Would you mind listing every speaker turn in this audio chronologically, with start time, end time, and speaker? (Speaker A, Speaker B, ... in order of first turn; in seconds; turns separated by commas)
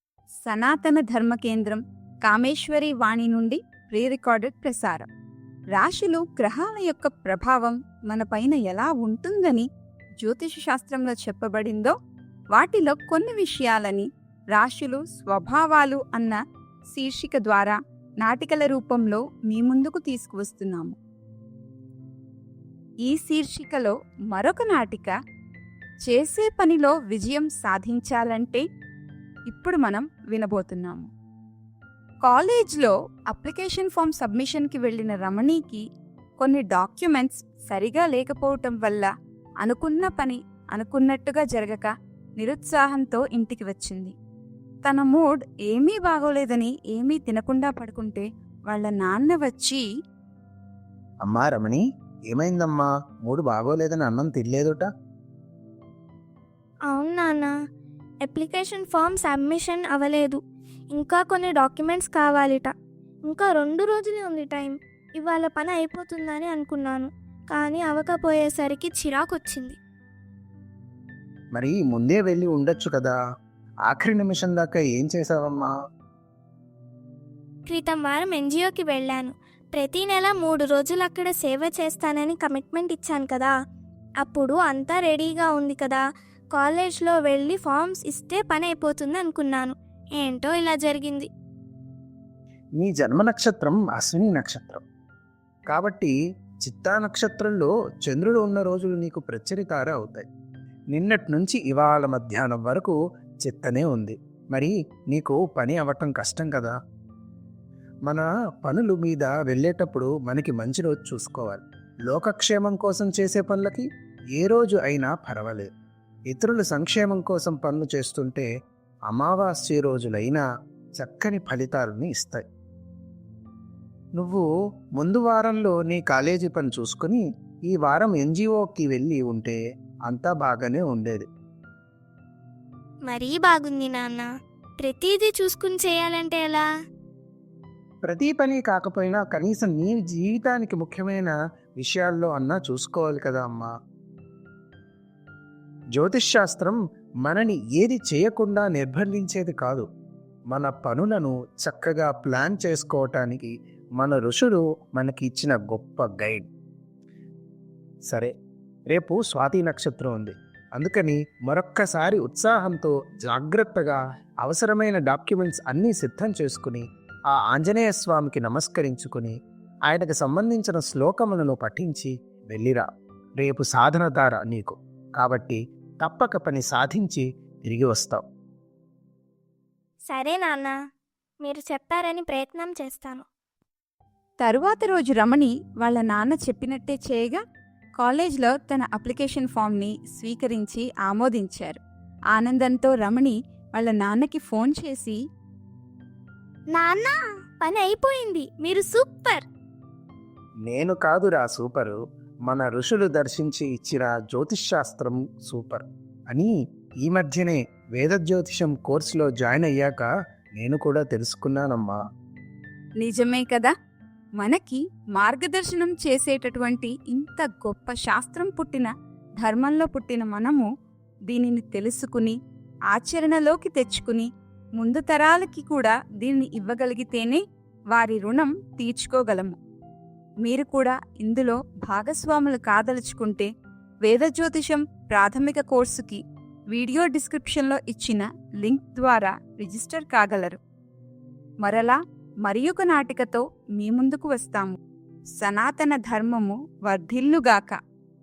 Speaker A: 0.5-5.1, Speaker A: 5.7-9.7, Speaker A: 10.2-11.9, Speaker A: 12.5-16.4, Speaker A: 16.9-21.0, Speaker A: 23.1-25.1, Speaker A: 26.1-28.6, Speaker A: 29.5-31.1, Speaker A: 32.2-35.8, Speaker A: 36.4-39.1, Speaker A: 39.6-44.1, Speaker A: 44.8-49.9, Speaker B: 51.2-54.9, Speaker C: 56.9-57.5, Speaker C: 58.2-60.4, Speaker C: 60.9-62.7, Speaker C: 63.3-69.8, Speaker B: 71.5-73.2, Speaker B: 73.9-75.7, Speaker C: 77.7-83.5, Speaker C: 84.2-86.0, Speaker C: 86.5-91.3, Speaker B: 92.8-94.8, Speaker B: 95.7-96.1, Speaker B: 96.6-100.3, Speaker B: 100.9-106.8, Speaker B: 108.1-115.7, Speaker B: 116.3-118.5, Speaker B: 119.1-120.4, Speaker B: 121.0-122.4, Speaker B: 124.2-124.5, Speaker B: 125.0-131.3, Speaker C: 133.1-134.3, Speaker C: 134.8-136.7, Speaker B: 138.1-143.7, Speaker B: 145.9-149.9, Speaker B: 150.5-156.5, Speaker B: 158.9-169.3, Speaker B: 169.9-172.8, Speaker B: 173.4-178.2, Speaker C: 180.1-180.8, Speaker C: 181.4-183.2, Speaker A: 184.4-187.4, Speaker A: 188.0-191.8, Speaker A: 192.3-195.2, Speaker C: 196.7-199.4, Speaker B: 200.7-206.5, Speaker B: 207.0-212.0, Speaker A: 213.0-213.7, Speaker A: 214.4-220.7, Speaker A: 221.3-222.4, Speaker A: 222.9-227.4, Speaker A: 227.9-229.6, Speaker A: 230.4-233.5, Speaker A: 234.0-240.6, Speaker A: 241.6-244.8, Speaker A: 245.4-247.8